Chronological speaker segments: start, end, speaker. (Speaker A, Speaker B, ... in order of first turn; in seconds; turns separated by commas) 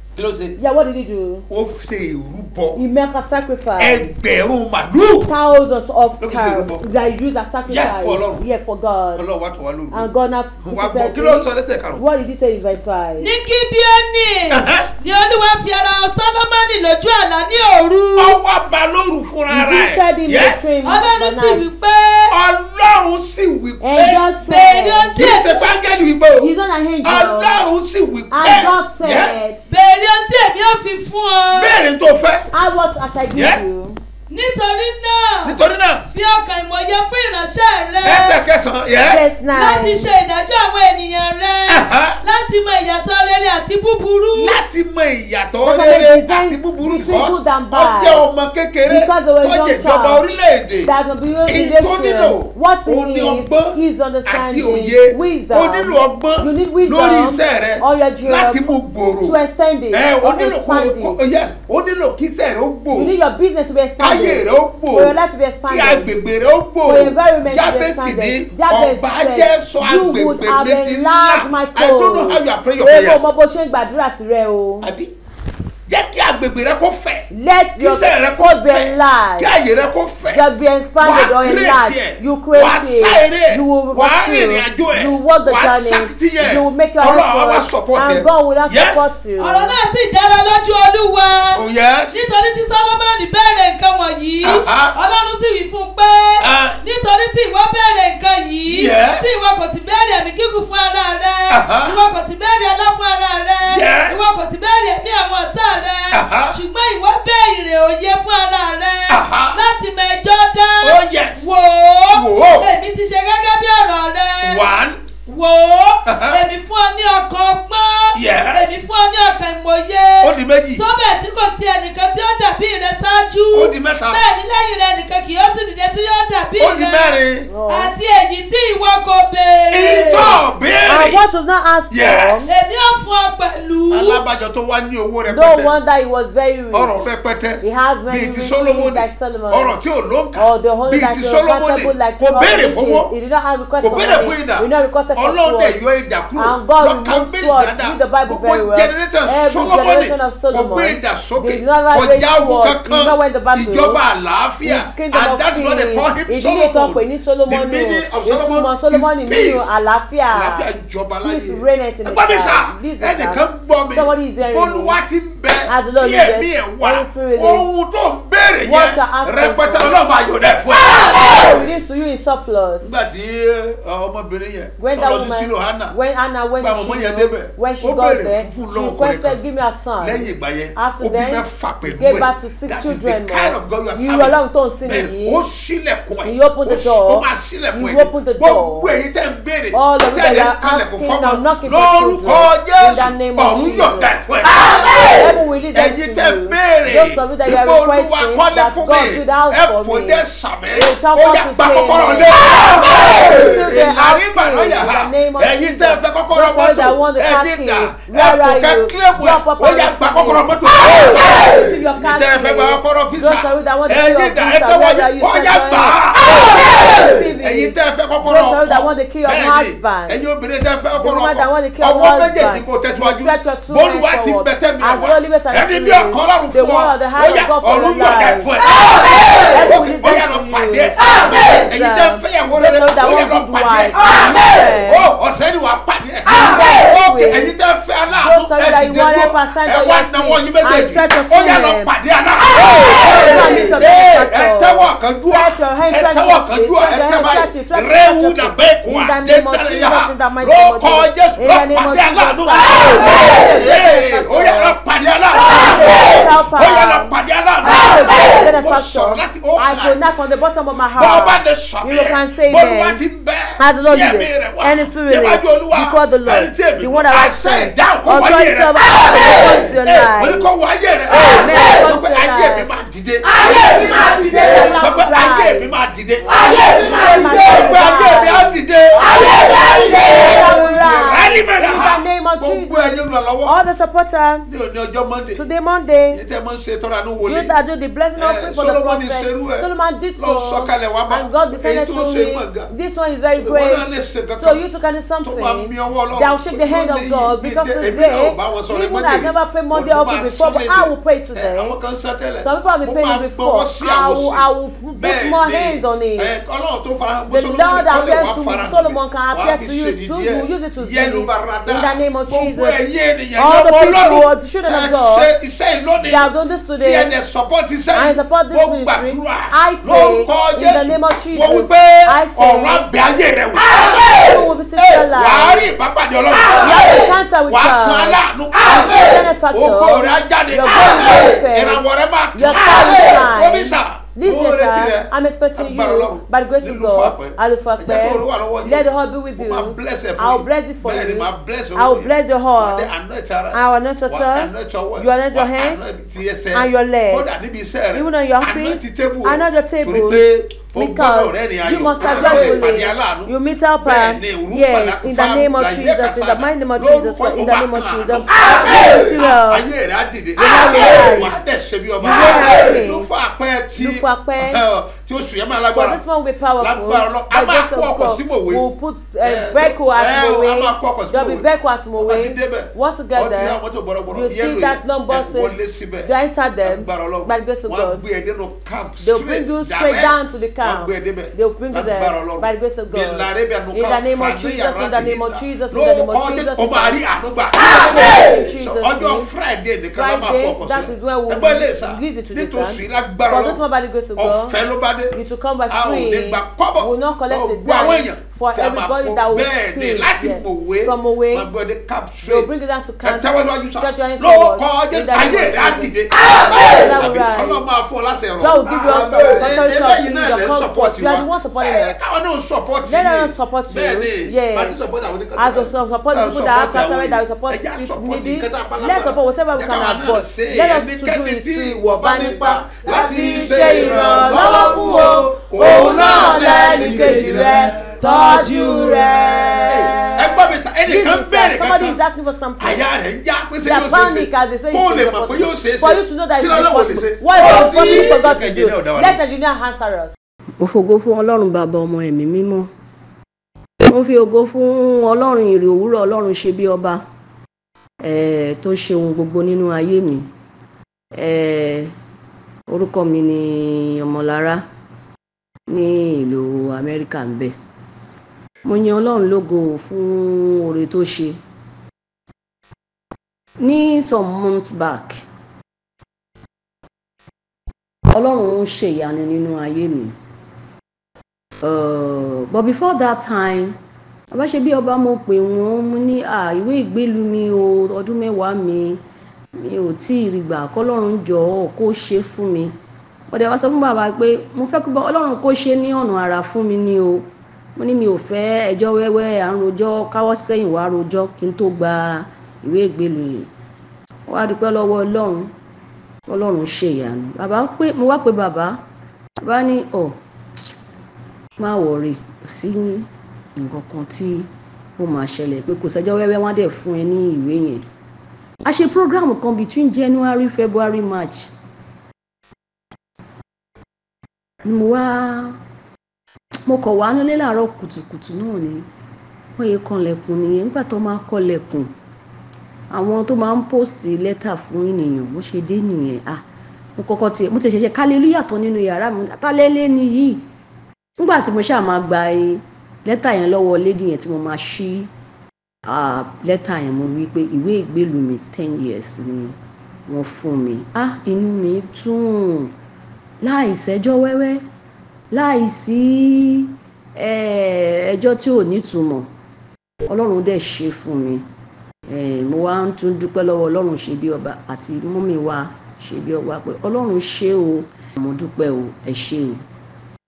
Speaker A: 0.1-0.6, Speaker B: 0.6-1.5, Speaker A: 1.5-2.8, Speaker B: 2.8-4.1, Speaker A: 3.8-5.3, Speaker B: 5.3-9.3, Speaker A: 6.2-6.9, Speaker A: 7.7-8.4, Speaker A: 9.2-10.1, Speaker B: 9.9-13.3, Speaker A: 10.6-12.0, Speaker C: 13.2-18.4, Speaker A: 14.5-14.9, Speaker A: 18.2-20.7, Speaker B: 19.5-21.6, Speaker C: 20.8-22.4, Speaker A: 22.3-24.2, Speaker B: 23.8-25.3, Speaker C: 24.4-25.7, Speaker A: 25.2-26.5, Speaker B: 26.4-27.6, Speaker A: 27.0-29.4, Speaker B: 28.3-29.6, Speaker C: 29.7-31.8, Speaker A: 31.5-32.5, Speaker B: 32.5-34.0, Speaker A: 33.3-33.7, Speaker C: 34.3-35.6, Speaker A: 35.4-36.0, Speaker C: 36.1-38.4, Speaker A: 38.0-39.2, Speaker B: 39.0-40.1, Speaker C: 39.5-44.6, Speaker A: 41.7-42.2, Speaker A: 44.3-50.9, Speaker B: 45.6-48.3, Speaker B: 48.9-50.2, Speaker B: 50.8-58.6, Speaker A: 51.5-59.4, Speaker B: 59.2-61.2, Speaker A: 59.9-63.1, Speaker B: 62.9-66.1, Speaker A: 64.0-65.2, Speaker A: 65.7-73.3, Speaker B: 66.8-74.9, Speaker A: 74.8-75.1, Speaker A: 75.9-80.4, Speaker B: 77.3-79.5, Speaker B: 80.3-89.8, Speaker A: 81.0-89.1, Speaker C: 89.4-114.6, Speaker A: 91.5-92.2, Speaker A: 94.4-94.9, Speaker A: 96.4-96.8, Speaker A: 98.7-99.2, Speaker A: 101.5-102.0, Speaker A: 103.7-104.2, Speaker A: 106.1-106.6, Speaker A: 109.1-109.6, Speaker A: 110.8-111.5, Speaker A: 112.1-112.7, Speaker A: 114.4-115.0, Speaker C: 115.3-130.4, Speaker A: 116.0-116.4, Speaker A: 118.1-118.8, Speaker A: 120.2-120.8, Speaker A: 123.5-124.2, Speaker A: 126.6-127.5, Speaker B: 127.5-128.0, Speaker A: 129.7-131.2, Speaker B: 130.9-132.5, Speaker A: 131.9-132.5, Speaker C: 132.5-134.2, Speaker A: 133.9-135.7, Speaker B: 135.3-137.0, Speaker A: 136.7-143.1, Speaker B: 137.6-139.8, Speaker B: 140.4-145.8, Speaker A: 143.8-159.8, Speaker B: 146.4-154.0, Speaker B: 154.6-160.7, Speaker A: 160.3-171.7, Speaker B: 161.2-165.0, Speaker B: 165.7-167.7, Speaker B: 168.7-170.0, Speaker B: 170.8-173.0, Speaker A: 172.8-175.9, Speaker B: 174.8-185.4, Speaker A: 176.6-179.4, Speaker A: 180.0-194.9, Speaker B: 186.3-188.9, Speaker B: 189.7-194.3, Speaker B: 195.1-220.2, Speaker A: 195.7-260.1, Speaker B: 221.0-228.5, Speaker B: 229.3-235.1, Speaker B: 236.3-237.5, Speaker B: 238.2-241.9, Speaker B: 242.6-254.8, Speaker B: 255.3-263.0, Speaker A: 261.0-283.6, Speaker B: 263.6-270.5, Speaker B: 271.1-272.7, Speaker B: 273.4-276.0, Speaker B: 276.7-284.5, Speaker A: 284.5-285.4, Speaker B: 285.4-286.2, Speaker A: 286.1-287.5, Speaker B: 287.2-301.8, Speaker A: 288.2-292.7, Speaker A: 293.4-294.6, Speaker A: 295.2-366.0, Speaker B: 302.4-306.3, Speaker B: 307.3-312.8, Speaker B: 313.4-315.3, Speaker B: 316.1-317.1, Speaker B: 317.9-322.9, Speaker B: 324.0-325.7, Speaker B: 326.6-331.8, Speaker B: 332.4-342.9, Speaker B: 343.5-345.8, Speaker B: 346.5-347.3, Speaker B: 347.9-350.2, Speaker B: 350.7-359.6, Speaker B: 360.4-361.5, Speaker B: 362.0-363.1, Speaker B: 363.8-364.6, Speaker B: 365.7-373.6, Speaker A: 366.6-368.6, Speaker A: 369.2-371.4, Speaker A: 372.0-376.1, Speaker B: 374.1-378.0, Speaker A: 376.6-393.6, Speaker B: 379.0-387.0, Speaker B: 387.6-389.3, Speaker B: 389.9-394.6, Speaker A: 394.2-395.2, Speaker B: 395.1-401.5, Speaker A: 395.7-402.5, Speaker B: 402.2-407.7, Speaker A: 403.0-428.6, Speaker B: 408.4-412.0, Speaker B: 412.9-414.8, Speaker B: 415.4-432.8, Speaker A: 429.6-432.0, Speaker A: 432.6-439.2, Speaker B: 433.6-440.1, Speaker D: 440.6-442.7, Speaker D: 443.8-447.0, Speaker D: 448.0-450.3, Speaker D: 451.2-451.9, Speaker D: 452.7-454.6, Speaker D: 455.7-457.6, Speaker D: 458.6-461.4, Speaker D: 463.6-465.2, Speaker D: 468.1-470.1, Speaker D: 471.6-473.8, Speaker D: 474.3-479.0, Speaker D: 479.6-482.8, Speaker D: 483.3-493.5, Speaker D: 494.3-495.5, Speaker D: 496.3-498.8, Speaker D: 499.4-500.2, Speaker D: 501.6-507.9, Speaker D: 508.6-511.5, Speaker D: 514.6-515.6, Speaker D: 516.7-518.9, Speaker D: 519.6-521.9, Speaker D: 522.9-526.4, Speaker D: 527.0-530.5, Speaker D: 531.2-535.1, Speaker D: 535.9-539.5, Speaker D: 540.1-542.7, Speaker D: 543.4-544.6, Speaker D: 545.3-549.3, Speaker D: 550.1-551.5, Speaker D: 552.1-559.6